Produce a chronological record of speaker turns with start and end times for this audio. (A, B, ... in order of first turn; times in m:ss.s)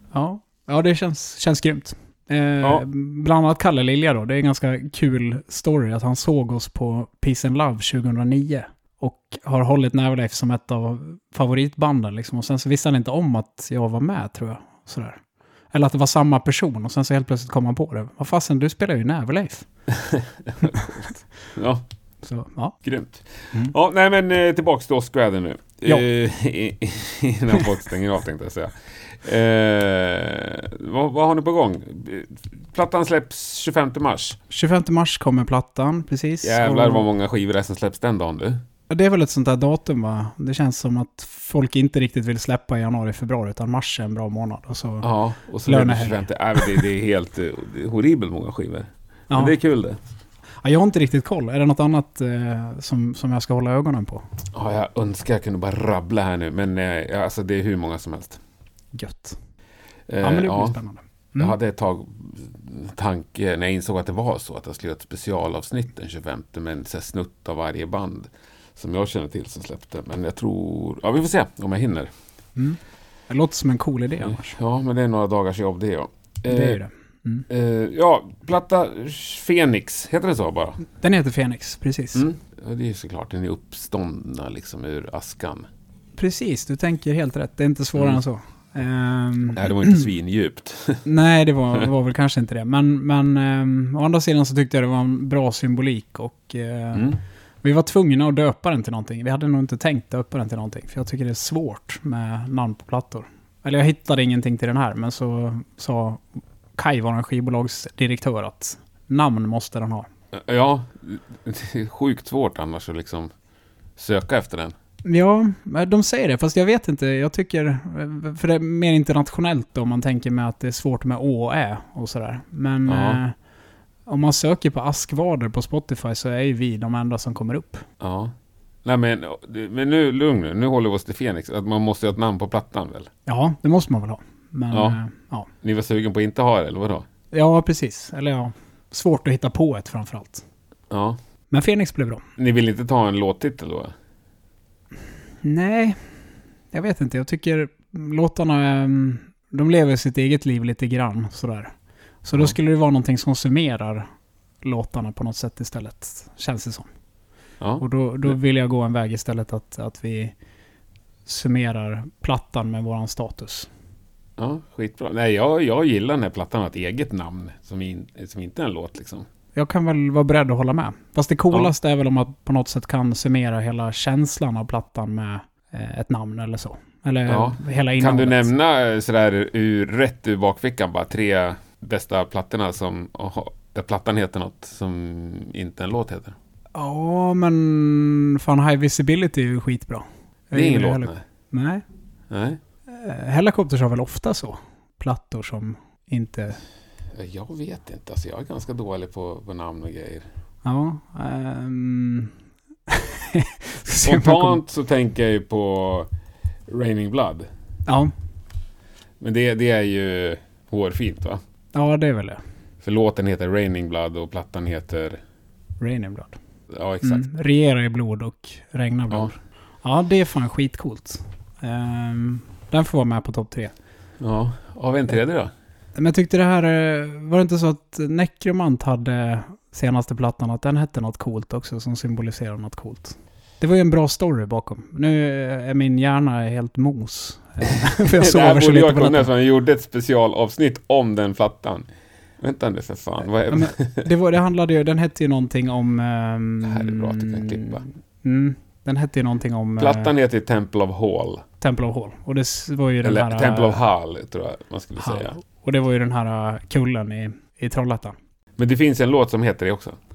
0:00.1-0:15.2 A
0:15.7-0:19.6 A
0:19.9-0:21.8 B
0:20.6-0:20.9 A
0:22.2-0:22.8 A
0:22.8-0:34.4 B
0:34.5-0:37.0 A
0:36.4-0:38.6 B
0:38.9-0:45.1 A
0:45.0-0:50.0 B
0:45.6-0:46.7 A
0:49.3-0:49.5 A
0:50.6-0:54.2 A
0:54.5-0:58.4 B
0:58.9-0:59.4 A
1:00.1-1:00.8 B
1:00.2-1:01.6 A
1:01.4-1:12.1 B
1:12.6-1:14.6 A
1:14.2-1:16.8 B
1:16.5-1:17.5 A
1:17.5-1:20.8 B
1:20.9-1:22.2 A
1:22.1-1:25.7 B
1:26.2-1:30.0 A
1:29.5-1:31.0 B
1:31.0-1:46.2 A
1:36.9-1:37.2 B
1:46.8-1:50.1 A
1:50.3-1:53.3 B
1:54.0-1:54.7 B
1:55.0-2:03.3 A
2:02.9-2:03.2 B
2:04.0-2:07.8 A
2:08.0-2:08.3 B
2:08.8-2:13.1 B
2:13.2-2:15.5 A
2:14.7-2:15.0 B
2:15.6-2:17.1 B
2:17.3-2:20.4 A
2:20.9-2:21.2 B
2:21.5-2:22.2 A
2:22.4-2:23.9 B
2:25.4-2:26.0 A
2:26.7-2:31.7 A
2:32.2-2:34.1 A
2:34.6-2:36.9 A
2:37.6-2:38.3 B
2:37.8-2:40.3 A
2:41.2-2:43.7 A
2:44.4-2:49.3 B
2:49.5-2:58.5 A
2:57.3-3:06.4 B
3:06.7-3:11.8 A
3:10.5-3:11.2 B
3:12.3-3:12.6 B
3:12.9-3:16.6 A
3:17.1-3:20.2 B
3:20.6-3:22.3 A
3:22.9-3:24.6 A
3:24.0-3:26.1 B
3:26.7-3:27.5 B
3:27.9-3:28.1 A
3:29.2-3:31.4 B
3:31.7-3:32.4 A
3:32.8-3:35.2 B
3:35.8-3:36.4 A
3:36.7-3:37.2 B
3:37.0-3:43.7 A
3:44.2-3:45.5 B
3:46.0-3:59.3 A
3:58.1-4:01.9 B
4:02.4-4:04.1 B
4:03.5-4:10.1 A
4:06.6-4:07.8 B
4:09.8-4:11.4 B
4:11.6-4:13.8 A
4:13.0-4:15.4 B
4:15.0-4:18.2 A
4:18.6-4:20.0 B